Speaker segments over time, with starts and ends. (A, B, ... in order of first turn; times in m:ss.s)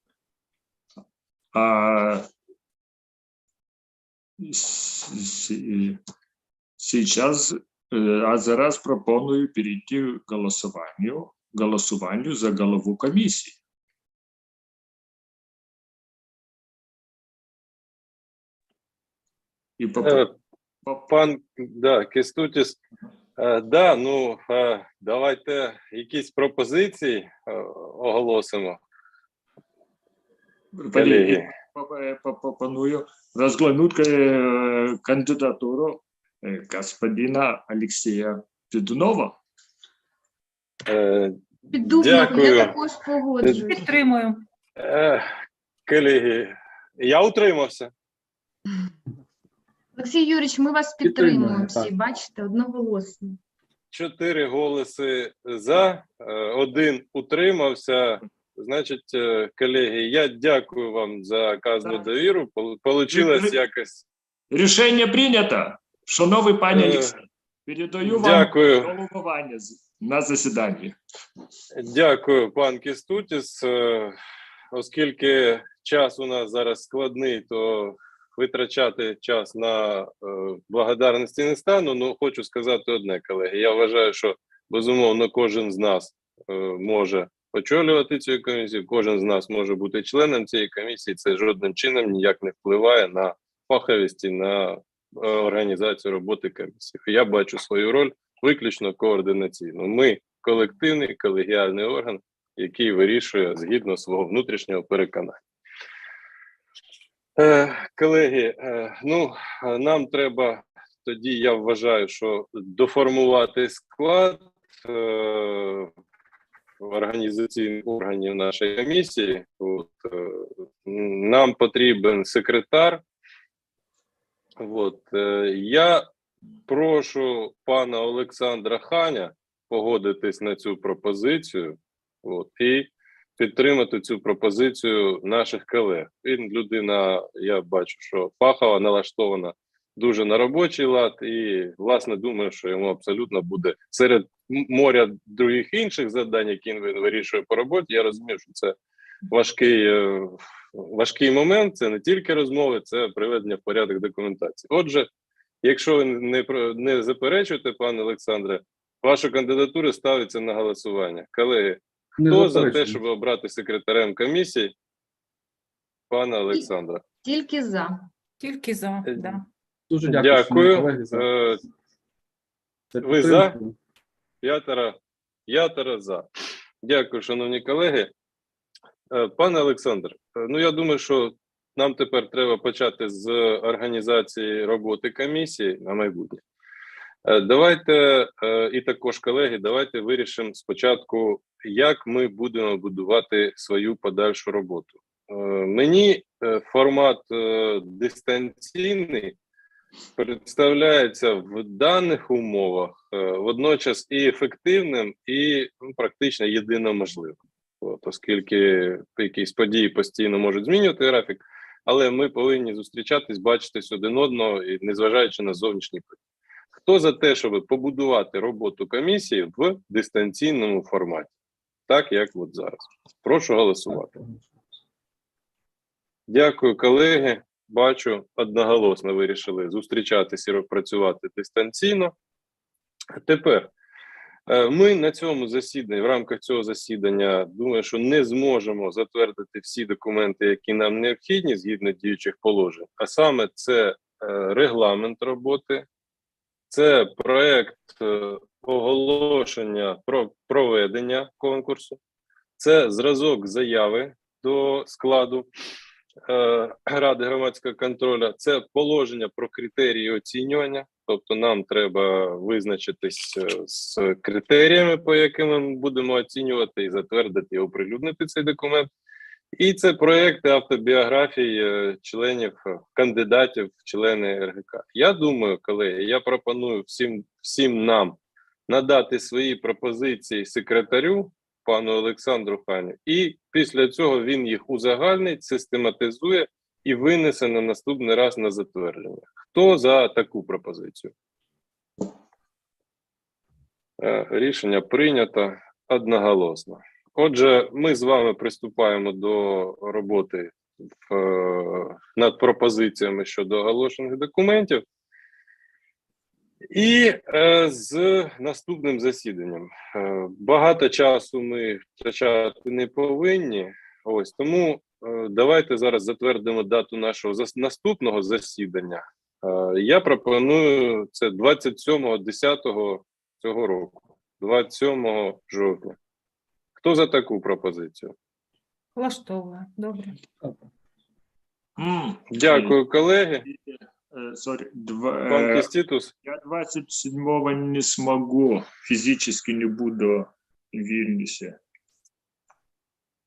0:01.5-0:02.3 A
0:04.4-0:06.0 A
0:06.8-0:13.6 A
0:19.8-0:20.3 A
0:20.0-0:20.3 B
0:21.1-0:22.8 B
0:23.4-0:28.8 B
0:30.7-0:39.4 A
0:30.9-0:31.5 B
0:40.8-0:42.7 B
0:41.7-0:43.9 C
0:43.4-0:44.4 D
0:44.8-0:45.3 B
0:45.9-0:47.9 B
0:50.0-0:53.4 C
0:51.0-0:51.9 E
0:53.9-1:04.0 B
1:03.1-1:03.6 A
1:04.5-1:11.0 A
1:06.7-1:07.1 B
1:08.0-1:08.9 B
1:11.7-1:14.2 B
1:14.7-1:45.4 B
1:47.4-1:55.9 B
1:56.8-2:03.0 B
2:04.6-2:06.0 B
2:06.7-2:28.8 B
2:29.3-2:35.1 B
2:35.6-2:44.7 B
2:42.2-2:43.0 E
2:46.1-2:47.0 B
2:47.2-2:48.1 C
2:48.4-2:49.4 D
2:49.0-2:49.4 B
2:49.9-2:51.3 E
2:50.0-2:51.6 B
2:52.9-2:53.8 E
2:53.0-2:53.5 B
2:54.4-2:55.0 B
2:55.5-2:56.2 B
2:56.8-2:58.1 B
2:59.1-3:06.4 B
3:07.2-3:19.4 B
3:20.2-3:36.2 B
3:36.8-3:41.3 B
3:41.9-3:44.1 B
3:43.9-3:44.5 E
3:46.3-3:52.1 B
3:53.1-3:53.7 B
3:54.5-4:05.8 B
4:06.7-4:12.0 B
4:12.6-4:15.5 B
4:16.2-4:28.9 B
4:29.6-4:38.2 B
4:38.7-4:51.1 B
4:54.0-5:04.8 B
5:06.7-5:26.0 B
5:26.8-5:28.1 B
5:29.0-5:30.1 D
5:31.8-5:32.8 A
5:32.3-5:33.4 B
5:33.4-5:35.7 A
5:35.3-5:36.1 B
5:36.2-5:41.6 A